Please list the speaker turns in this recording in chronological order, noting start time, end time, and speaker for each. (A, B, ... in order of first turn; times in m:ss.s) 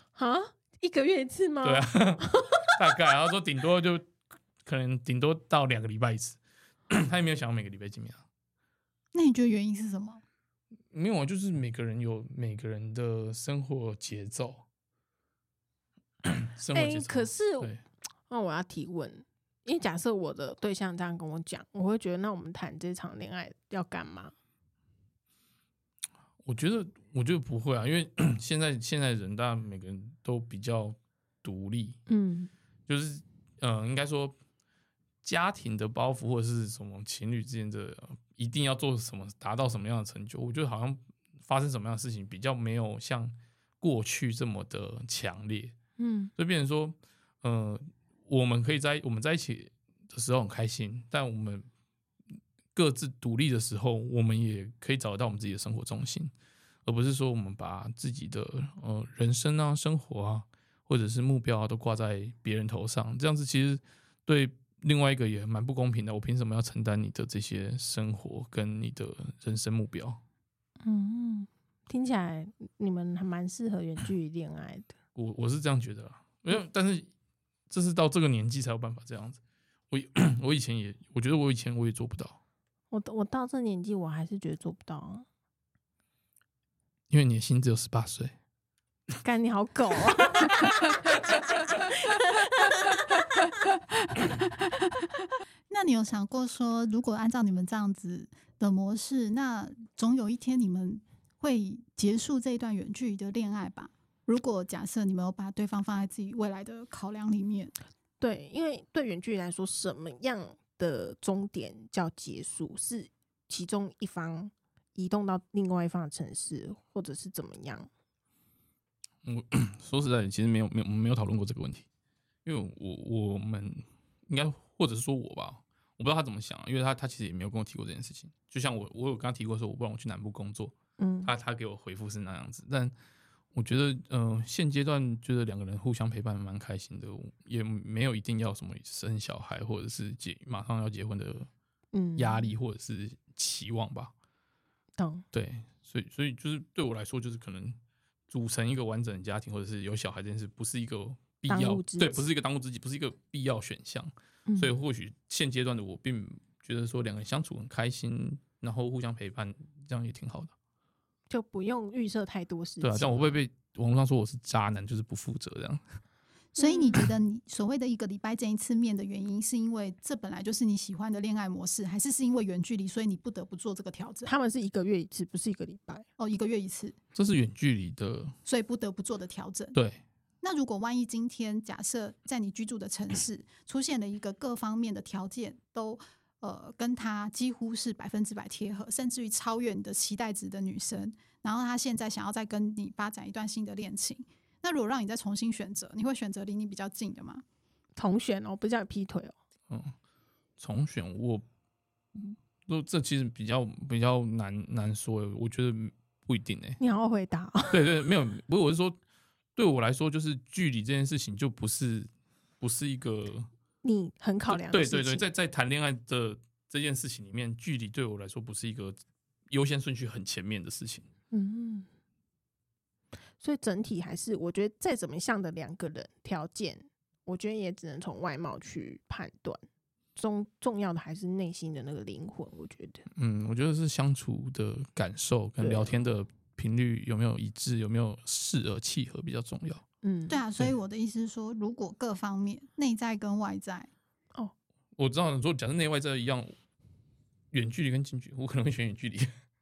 0:00.2-0:02.5 A
0:01.6-0:04.1 B
0:04.6-0:06.4 B
0:06.9-0:08.2 B
0:09.1-0:10.2 C
0:10.9-0:14.6 B
0:16.2-0:17.8 B
0:16.7-0:17.7 A
0:18.3-0:24.3 A
0:26.4-0:32.0 B
0:32.1-0:32.5 A
0:32.9-0:34.3 B
0:35.2-0:45.8 B
0:46.0-0:46.3 A
0:46.4-0:51.6 B
0:52.7-0:56.3 B
0:56.8-1:10.2 B
1:10.8-1:14.9 A
1:15.1-1:17.1 B
1:17.7-1:19.4 B
1:19.9-1:22.4 B
1:22.9-1:25.2 A
1:27.1-1:28.3 B
1:29.2-1:32.9 A
1:34.2-1:34.5 C
1:35.7-1:47.7 C
1:48.2-1:57.9 A
1:59.2-2:01.9 B
2:02.4-2:12.9 B
2:11.0-2:11.3 A
2:13.5-2:21.5 B
2:21.9-2:22.5 A
2:22.2-2:24.1 B
2:25.0-2:25.2 A
2:25.3-2:27.8 B
2:28.3-2:40.5 B
2:31.5-2:32.2 A
2:34.5-2:34.8 A
2:41.3-2:43.4 A
2:42.8-2:45.8 B
2:46.6-2:54.3 C
2:46.6-2:47.0 A
2:54.2-2:56.0 A
2:56.2-2:57.0 C
2:57.1-2:58.3 B
2:58.4-2:59.8 C
2:59.7-3:00.0 B
3:00.4-3:17.4 C
3:18.0-3:19.3 A
3:19.7-3:19.9 B
3:20.6-3:21.4 B
3:22.2-3:26.8 B
3:26.8-3:27.9 A
3:27.7-3:29.0 B
3:29.6-3:33.5 B
3:33.8-3:35.2 A
3:34.5-3:39.0 B
3:39.5-3:41.0 B
3:41.3-3:41.9 A
3:43.4-3:49.6 A
3:50.2-3:53.0 A
3:53.1-3:59.8 B
3:55.6-3:56.0 A
4:00.0-4:00.4 A
4:00.3-4:03.9 C
4:05.0-4:06.5 B
4:07.5-4:09.3 B